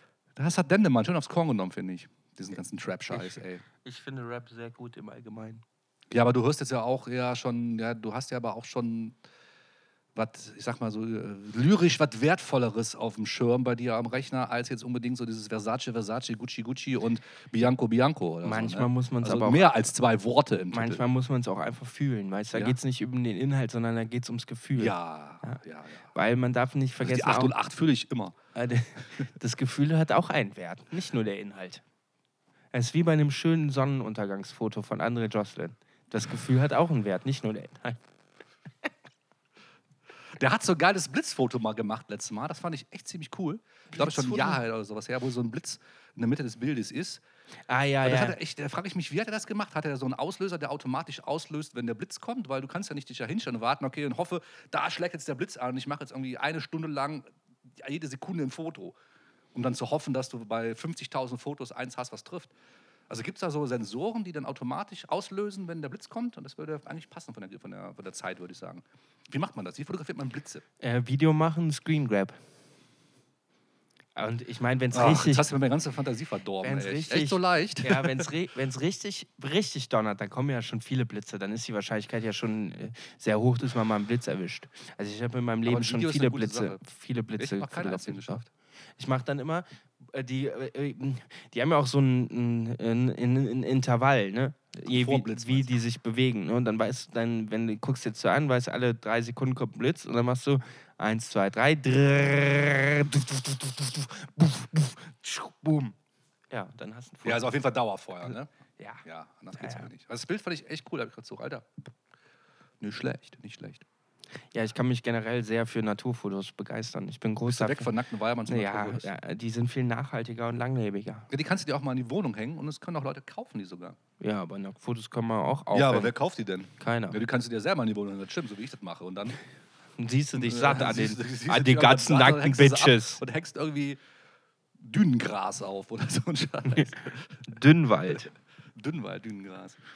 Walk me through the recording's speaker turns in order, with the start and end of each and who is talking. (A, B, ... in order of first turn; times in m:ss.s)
0:00.4-0:03.6 A
0:03.1-0:05.6 B
0:06.1-0:09.1 A
0:10.1-0:21.0 A
0:18.4-0:19.7 B
0:20.7-0:25.6 B
0:24.8-0:26.1 A
0:26.1-0:27.5 B
0:27.0-0:28.3 A
0:28.5-0:31.8 B
0:32.7-0:38.0 B
0:40.4-0:47.2 A
0:43.9-0:44.6 B
0:47.7-0:48.4 B
0:48.0-0:57.2 A
0:57.8-0:59.0 A
0:59.5-1:02.5 A
1:03.1-1:10.6 A
1:10.8-1:12.4 B
1:14.2-1:15.4 B
1:14.9-1:18.3 A
1:16.6-1:28.4 B
1:25.6-1:26.8 A
1:27.4-1:28.5 A
1:29.0-1:45.9 B
1:34.8-1:35.8 A
1:46.5-1:47.4 B
1:47.2-1:48.5 A
1:48.3-1:49.0 B
1:49.0-1:51.6 A
1:49.6-1:49.9 B
1:52.8-1:53.8 A
1:54.5-1:57.9 B
1:57.5-1:59.1 A
1:58.5-2:01.3 B
2:01.3-2:04.0 A
2:04.2-2:06.1 B
2:05.7-2:09.4 A
2:06.8-2:07.2 B
2:10.0-2:13.2 B
2:10.4-2:14.0 A
2:14.8-2:17.3 A
2:16.8-2:18.3 B
2:18.8-2:19.8 A